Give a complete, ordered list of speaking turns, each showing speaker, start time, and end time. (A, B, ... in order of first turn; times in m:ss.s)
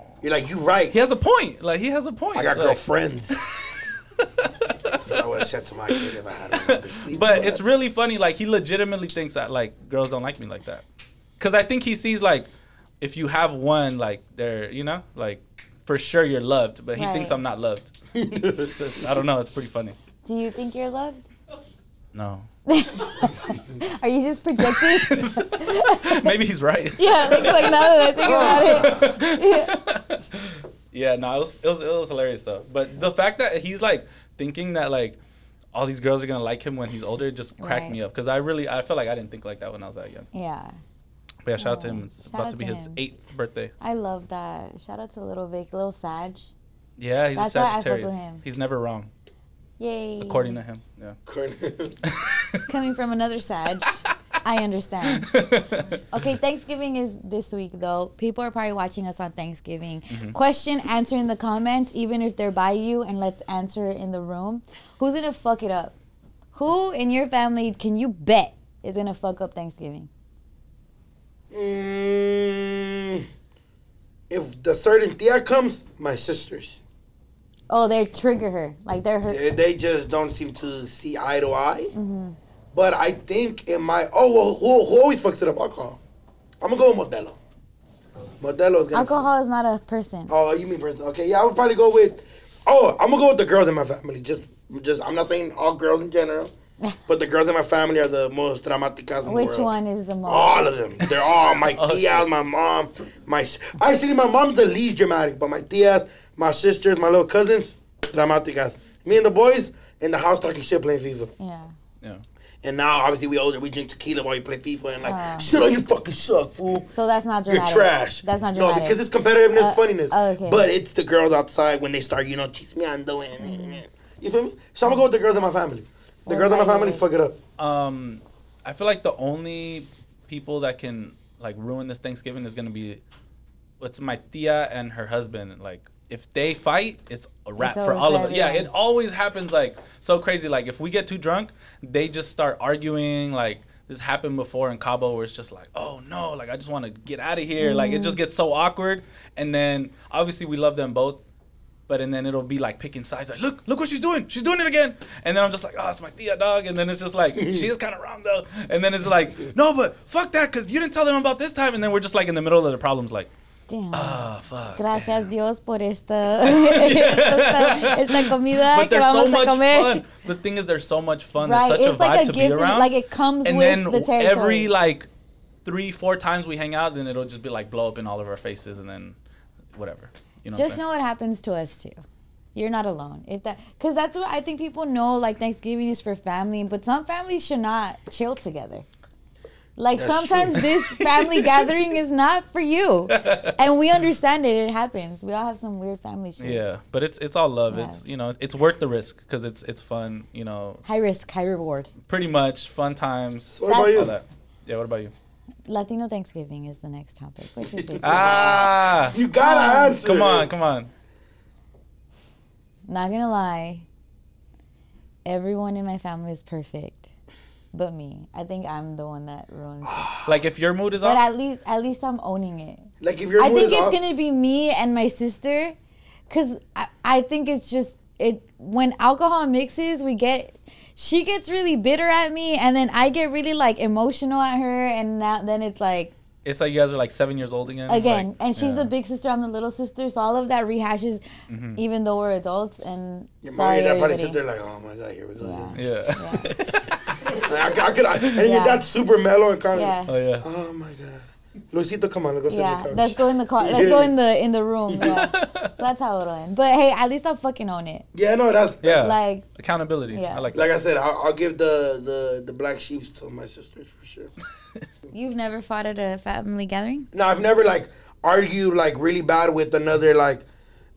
0:00.2-0:01.0 A
0:00.9-0:05.4 B
0:02.3-0:03.4 A
0:05.0-0:07.6 A
0:05.9-0:10.8 B
0:11.4-0:12.5 B
0:13.0-0:17.9 B
0:17.0-0:17.4 C
0:18.1-0:18.8 A
0:18.7-0:20.0 B
0:20.2-0:21.3 C
0:22.1-0:22.4 B
0:22.7-0:26.3 C
0:24.6-0:35.2 B
0:27.0-0:29.7 C
0:28.2-0:29.1 A
0:35.7-0:40.3 B
0:37.6-0:38.0 C
0:40.3-0:40.8 C
0:41.4-0:43.7 B
0:41.6-0:43.0 C
0:43.8-0:46.5 C
0:47.0-0:49.1 B
0:47.4-0:48.4 C
0:49.8-0:50.6 C
0:50.2-0:51.2 B
0:51.3-0:52.0 A
0:52.0-0:52.6 B
0:52.7-0:55.3 C
0:55.2-0:56.0 B
0:56.1-1:05.9 C
1:00.1-1:00.4 B
1:06.5-1:10.1 C
1:11.5-1:13.2 A
1:14.3-1:16.8 A
1:17.7-1:19.4 C
1:19.3-1:21.9 A
1:21.9-1:22.4 C
1:22.7-1:26.0 A
1:26.6-1:27.4 A
1:28.4-1:29.3 A
1:28.9-1:30.3 C
1:30.3-1:36.5 A
1:37.1-1:39.7 A
1:39.2-1:40.7 C
1:40.2-1:51.3 A
1:41.7-1:42.3 B
1:51.4-1:51.7 C
1:52.6-1:56.9 A
1:55.0-1:55.5 C
1:56.9-1:59.0 C
1:57.5-2:07.4 A
1:59.5-2:00.7 C
2:03.4-2:03.8 C
2:06.2-2:07.0 C
2:07.6-2:13.0 B
2:13.8-2:31.2 B
2:17.6-2:18.7 C
2:27.6-2:28.2 C
2:31.9-2:43.3 B
2:43.7-2:50.0 C
2:43.9-2:45.3 B
2:46.4-2:52.9 B
2:51.4-2:54.7 C
2:53.4-2:55.1 B
2:55.6-2:59.2 B
2:59.7-3:00.8 B
3:00.5-3:02.0 C
3:02.5-3:08.8 C
3:09.8-3:16.6 C
3:09.9-3:10.6 A
3:10.6-3:11.4 B
3:13.1-3:13.6 B
3:16.4-3:20.8 B
3:17.7-3:18.0 C
3:20.8-3:21.9 C
3:22.1-3:25.1 B
3:23.5-3:24.1 A
3:23.7-3:24.1 C
3:25.7-3:28.5 C
3:27.6-3:30.5 A
3:28.0-3:29.2 B
3:29.3-3:30.0 C
3:30.0-3:30.9 B
3:32.9-3:33.8 C
3:35.2-3:37.1 C
3:37.7-3:40.1 C
3:39.8-3:40.3 A
3:40.2-3:41.2 B
3:41.0-3:45.8 C
3:43.0-3:44.0 A
3:46.3-3:56.1 C
3:56.4-3:58.9 B
3:57.9-4:01.2 C
4:01.5-4:01.8 B
4:01.8-4:04.4 C
4:03.4-4:05.8 A
4:05.4-4:06.5 C
4:05.8-4:07.4 B
4:07.3-4:14.2 A
4:08.2-4:08.4 B
4:08.4-4:08.8 C
4:09.7-4:10.1 C
4:10.1-4:10.4 B
4:12.5-4:18.0 C
4:15.0-4:15.7 B
4:18.1-4:19.1 A
4:18.8-4:20.7 B
4:19.0-4:19.4 C
4:20.1-4:20.4 C
4:20.5-4:24.3 A
4:25.1-4:27.1 C
4:27.1-4:30.4 A